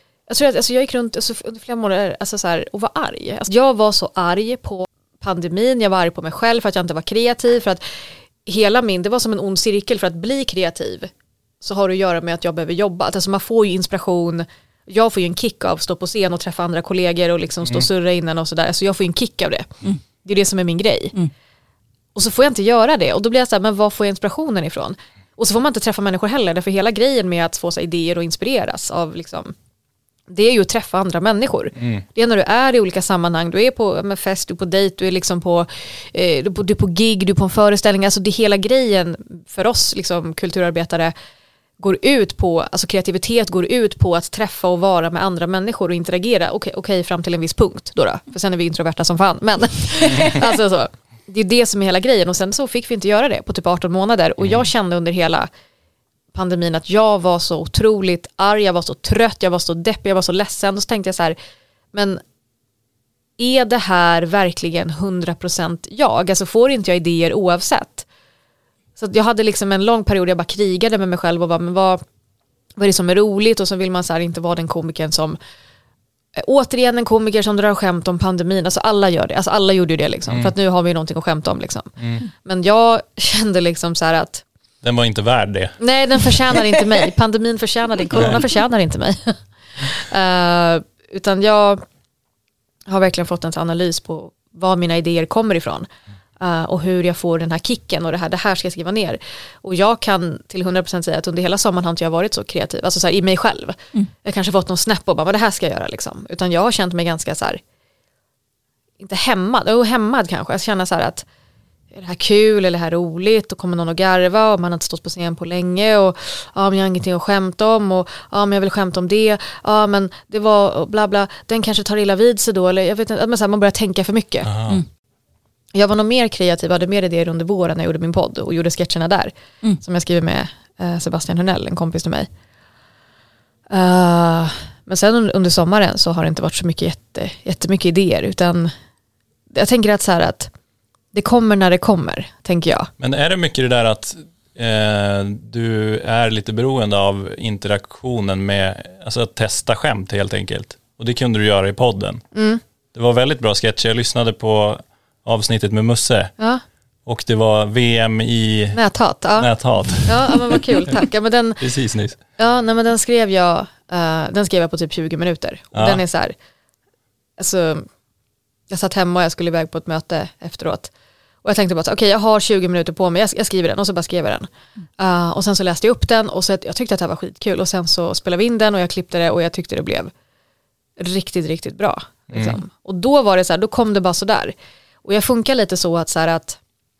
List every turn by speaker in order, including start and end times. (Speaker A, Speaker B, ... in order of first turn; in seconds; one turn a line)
Speaker A: 0.3-21.2
Speaker A: 22.1-29.5
Speaker A: 30.3-41.1
Speaker B: 31.8-32.0
Speaker A: 41.8-55.5
Speaker A: 56.3-61.4
Speaker A: 61.9-62.2
Speaker A: 63.4-68.1
Speaker A: 69.0-72.0
Speaker A: 72.8-75.4
Speaker A: 76.4-84.4
Speaker B: 84.8-85.8
Speaker A: 85.8-91.8
Speaker B: 88.1-88.5
Speaker A: 92.9-95.9
Speaker A: 96.4-107.6
Speaker A: 109.0-111.3
Speaker A: 111.9-124.5
Speaker B: 124.5-124.8
Speaker A: 125.7-132.3
Speaker A: 133.7-138.7
Speaker A: 139.5-140.5
Speaker A: 141.1-142.9
Speaker B: 143.0-152.2
Speaker A: 152.3-152.6
Speaker B: 152.9-156.3
Speaker B: 157.1-158.8
Speaker A: 158.7-161.7
Speaker B: 159.4-160.9
Speaker B: 161.6-162.2
Speaker A: 162.4-166.4
Speaker B: 165.7-166.0
Speaker A: 167.4-167.9
Speaker A: 168.7-170.9
Speaker A: 171.4-180.1
Speaker A: 181.0-186.6
Speaker B: 182.3-182.6